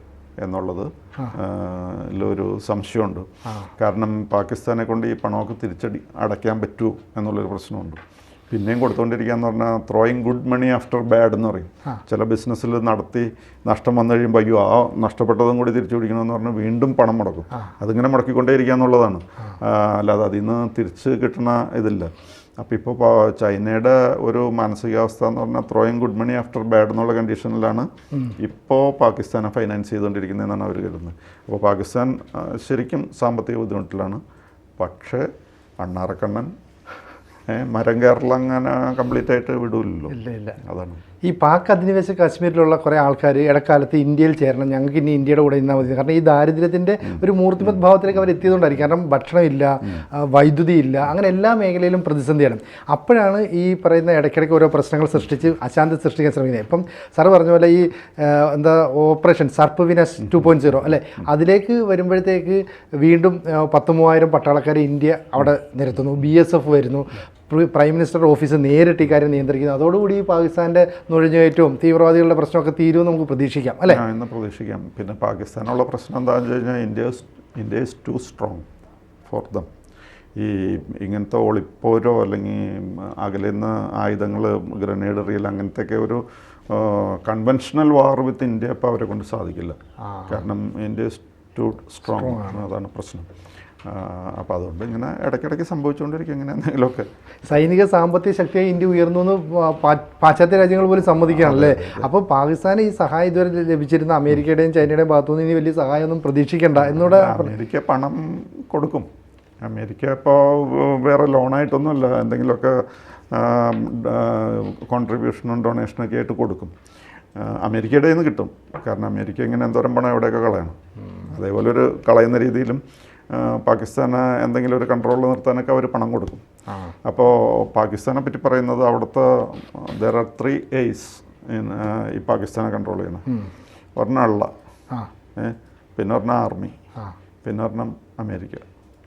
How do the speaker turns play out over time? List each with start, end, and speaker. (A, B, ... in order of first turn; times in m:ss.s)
0:00.4-0:03.2 A
0:03.8-0:34.2 A
0:34.8-0:35.3 A
0:35.8-0:36.5 A
0:37.5-0:41.0 A
0:40.1-0:40.6 B
0:41.2-1:14.0 B
1:13.9-1:18.6 A
1:19.2-1:19.7 A
1:20.4-1:29.8 A
1:30.0-1:30.4 B
1:30.3-1:33.3 A
1:32.1-1:32.6 B
1:33.8-1:37.1 A
1:37.4-1:47.5 B
1:41.2-1:42.1 A
1:46.8-1:49.1 A
1:49.6-1:56.7 A
1:57.4-2:00.8 A
2:01.3-2:06.4 A
2:06.7-2:06.9 B
2:07.0-2:13.2 A
2:14.0-2:14.5 A
2:15.4-2:16.7 A
2:17.4-2:18.6 A